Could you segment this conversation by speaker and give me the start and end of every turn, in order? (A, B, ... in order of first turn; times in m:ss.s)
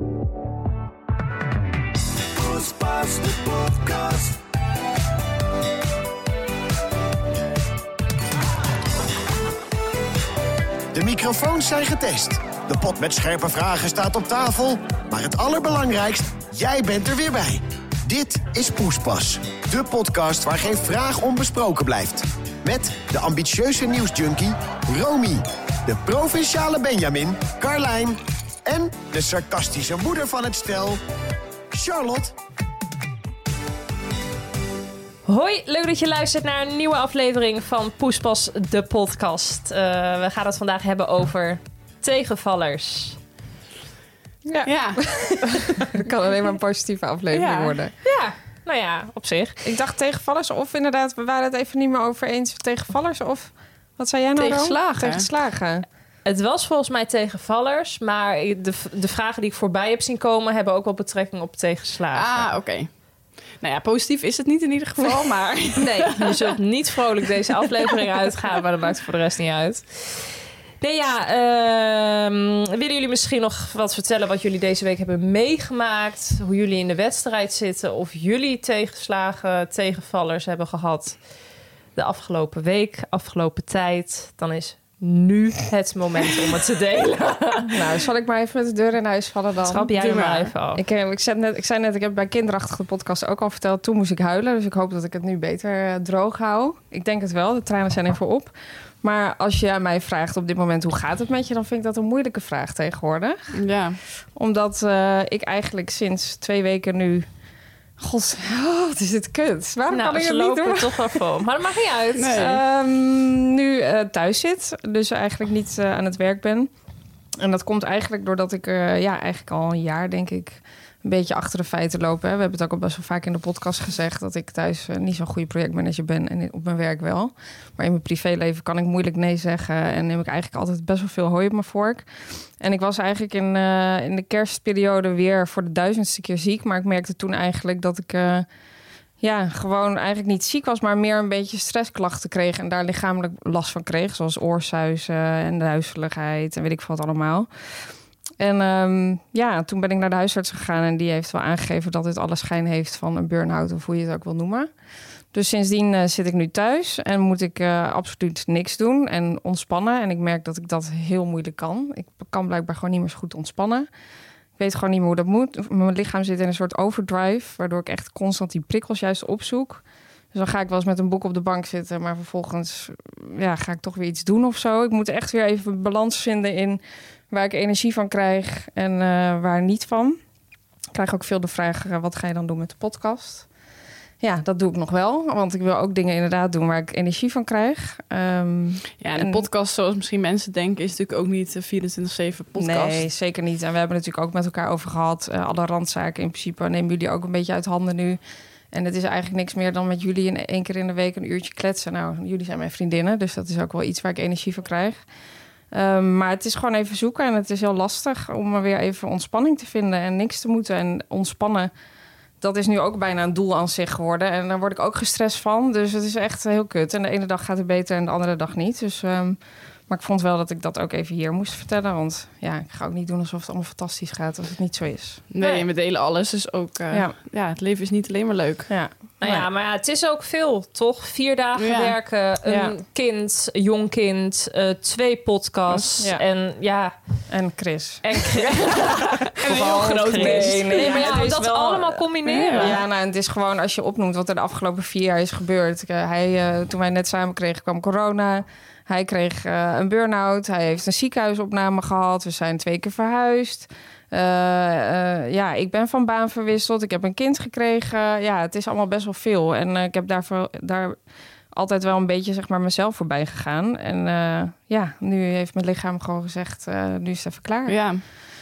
0:02.4-0:04.3 A
0:10.9-0:31.0 A
0:31.7-0:32.4 A
0:35.3-0:43.2 B
0:44.5-0:48.0 C
0:44.6-0:45.1 D
0:47.3-0:47.7 D
0:48.0-0:49.6 B
0:49.6-0:55.9 C
0:54.4-0:55.3 D
0:56.2-1:02.5 B
1:02.1-1:02.9 D
1:03.6-1:06.5 D
1:05.8-1:21.2 B
1:22.0-1:27.7 B
1:27.7-1:29.9 C
1:29.6-1:30.8 B
1:30.0-1:30.5 D
1:30.8-1:43.5 C
1:43.5-1:44.0 D
1:44.4-1:47.3 C
1:48.0-1:51.2 C
1:49.9-1:52.6 B
1:52.2-1:52.6 D
1:52.3-1:56.7 C
1:57.4-2:12.1 C
2:12.6-2:18.5 C
2:19.2-2:27.7 C
2:28.4-2:34.7 C
2:35.3-2:43.9 C
2:44.6-3:00.2 C
3:00.9-3:03.5 C
3:04.2-3:09.5 C
3:09.0-3:13.0 D
3:12.6-3:18.2 C
3:18.7-3:25.0 C
3:25.7-3:31.7 C
3:32.4-3:45.2 C
3:45.3-3:48.7 D
3:48.7-3:49.5 C
3:49.2-3:57.0 B
3:51.6-3:52.0 D
3:52.5-3:52.8 C
3:57.3-4:21.0 C
3:58.0-4:02.8 B
3:58.8-4:01.2 D
4:02.2-4:02.8 D
4:21.5-4:27.8 C
4:27.7-4:28.0 D